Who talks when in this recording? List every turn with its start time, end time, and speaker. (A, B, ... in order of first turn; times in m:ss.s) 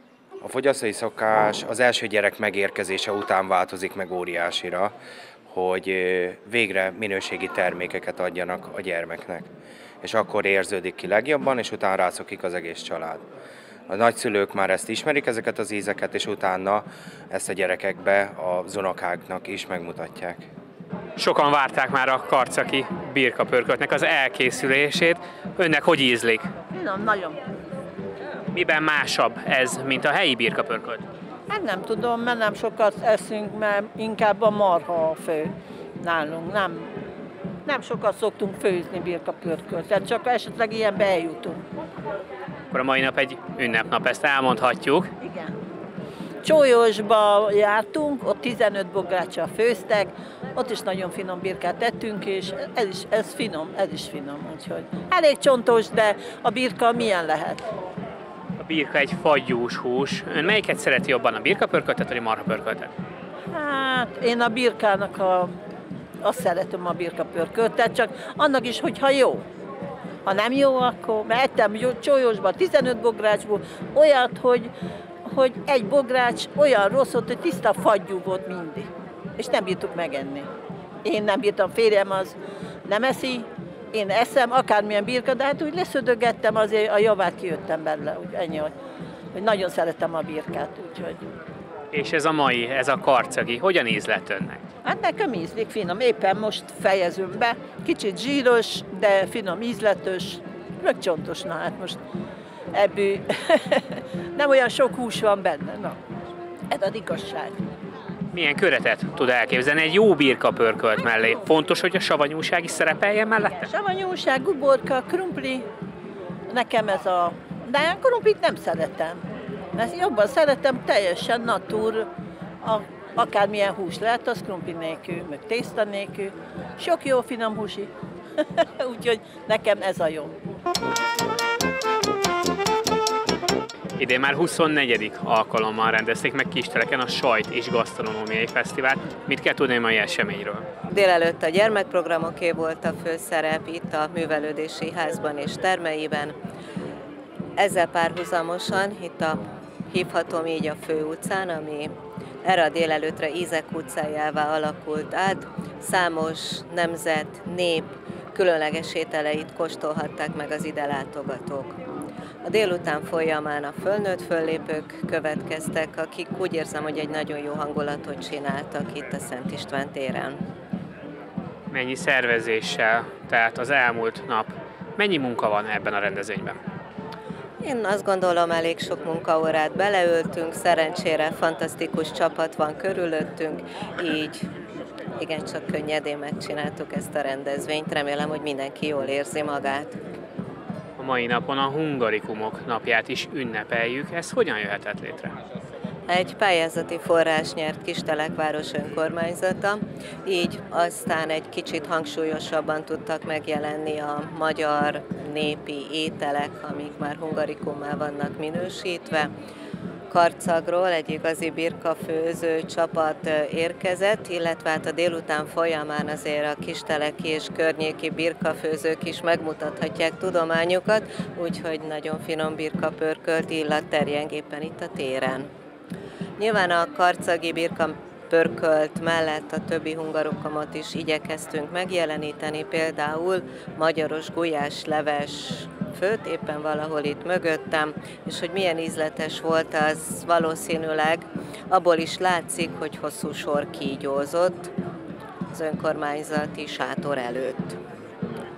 0:00.4-0:05.0 A
0:05.5-0:09.5 A
0:10.0-0:13.2 A
0:13.9-0:20.5 A
0:21.2-0:26.5 B
0:26.7-0:27.4 C
0:28.5-0:31.0 B
0:31.5-0:37.0 C
0:37.6-0:41.6 C
0:42.7-0:45.1 B
0:45.2-0:45.5 C
0:46.4-0:57.6 C
0:58.6-1:02.9 B
1:03.5-1:05.5 C
1:06.2-1:09.4 C
1:10.2-1:14.7 C
1:15.3-1:20.5 C
1:21.0-1:28.7 C
1:29.3-1:31.2 C
1:31.9-1:34.6 B
1:34.8-1:42.0 C
1:42.7-1:43.8 C
1:44.3-1:46.0 C
1:46.7-1:47.6 C
1:48.3-1:53.7 B
1:53.7-1:55.6 C
1:56.5-1:59.2 C
1:59.7-2:02.1 C
2:02.6-2:07.9 C
2:08.8-2:10.3 C
2:14.0-2:20.7 B
2:20.9-2:26.4 D
2:27.6-2:31.9 D
2:32.4-2:41.8 D
2:42.4-2:50.4 D
2:51.7-2:56.6 B
2:57.6-3:04.5 D
3:05.2-3:09.9 D
3:11.0-3:15.4 B
3:16.1-3:29.3 D
3:30.1-3:45.5 D
3:46.4-4:04.7 D
4:05.5-4:07.8 D